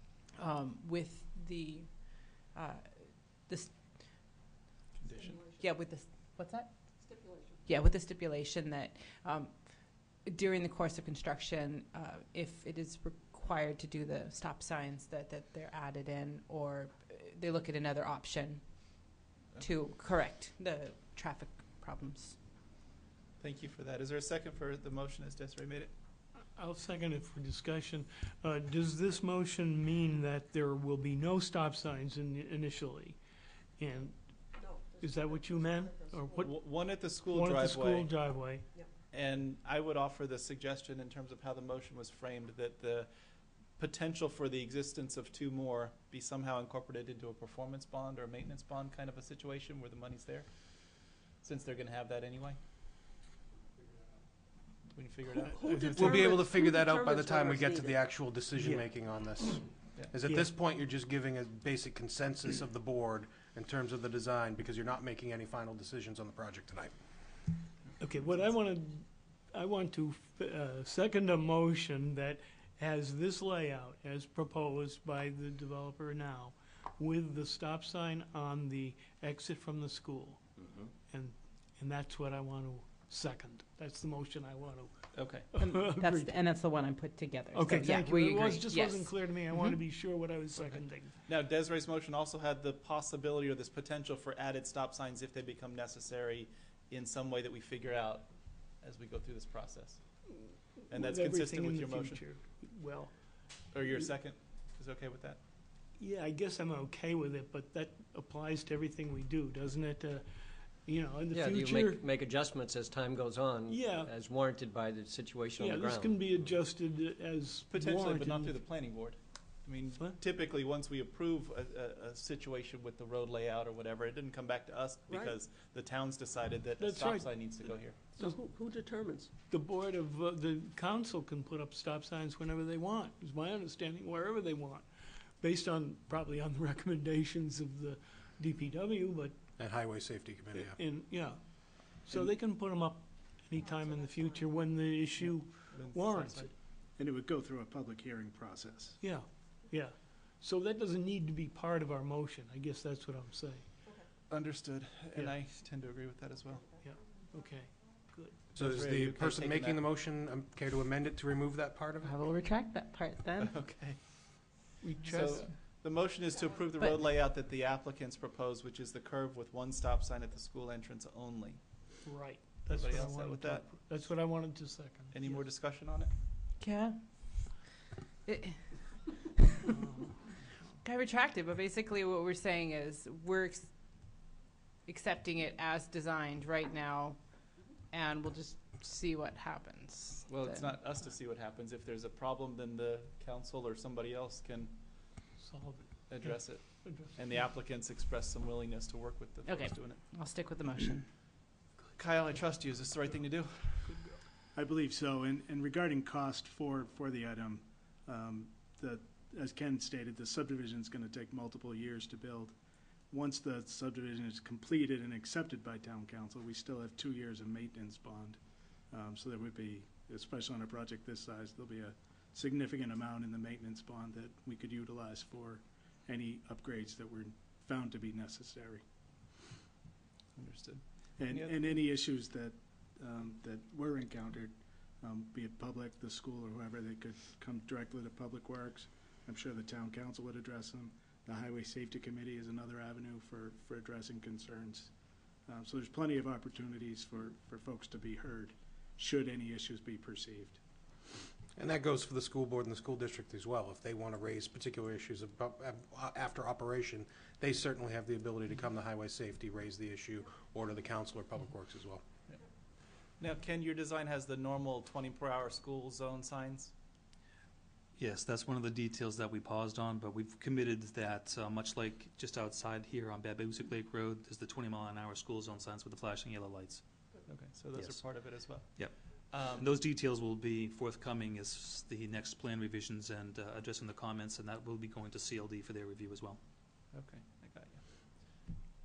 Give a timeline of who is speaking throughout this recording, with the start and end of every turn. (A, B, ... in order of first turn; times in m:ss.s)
0:00.3-0:03.8 A
0:05.0-0:05.4 B
0:05.4-0:22.4 A
0:23.4-0:25.9 B
0:26.5-0:33.2 C
0:33.8-0:36.6 C
0:36.4-0:38.1 B
0:37.3-0:38.7 C
0:39.1-0:43.1 B
0:43.8-0:52.6 B
0:54.9-0:56.0 B
0:55.6-0:58.0 D
0:55.6-1:06.9 E
0:58.6-0:58.9 C
1:00.2-1:00.5 C
1:08.0-1:20.4 C
1:21.1-1:26.3 C
1:25.1-1:25.5 F
1:25.6-1:29.8 A
1:27.5-1:31.2 C
1:30.6-1:40.0 B
1:40.4-1:43.1 C
1:40.9-1:42.2 B
1:43.7-1:45.4 B
1:46.0-1:50.3 C
1:50.8-1:52.1 C
1:51.3-1:56.5 G
1:53.7-1:54.1 C
1:55.6-1:58.7 C
1:57.7-2:08.1 B
2:06.8-2:08.4 C
2:08.2-2:09.3 D
2:09.4-2:19.4 C
2:19.6-2:20.8 E
2:20.5-2:26.5 C
2:25.2-2:26.5 B
2:27.0-2:29.0 H
2:29.0-2:33.8 C
2:34.3-2:36.7 B
2:35.1-2:35.4 C
2:36.7-2:38.5 C
2:38.5-2:42.2 E
2:38.6-2:39.9 B
2:42.0-2:43.6 A
2:43.4-2:52.0 B
2:44.8-2:45.6 C
2:52.0-2:55.4 C
2:52.6-2:53.8 B
2:55.1-2:56.1 B
2:56.6-2:57.5 A
2:58.2-2:59.4 A
2:59.7-3:00.4 C
3:00.8-3:03.7 A
3:04.9-3:07.2 A
3:07.9-3:10.6 A
3:10.3-3:15.2 B
3:15.4-3:17.5 C
3:16.1-3:20.0 B
3:19.5-3:21.0 A
3:22.0-3:24.0 B
3:23.8-3:24.2 C
3:24.5-3:32.6 H
3:33.1-3:38.4 H
3:38.9-3:48.8 H
3:50.4-3:51.7 B
3:51.2-4:04.9 H
4:05.5-4:10.6 H
4:11.6-4:22.0 E
4:23.2-4:26.7 B
4:28.0-4:37.0 F
4:37.2-4:39.7 B
4:37.7-4:46.4 F
4:46.9-4:47.8 B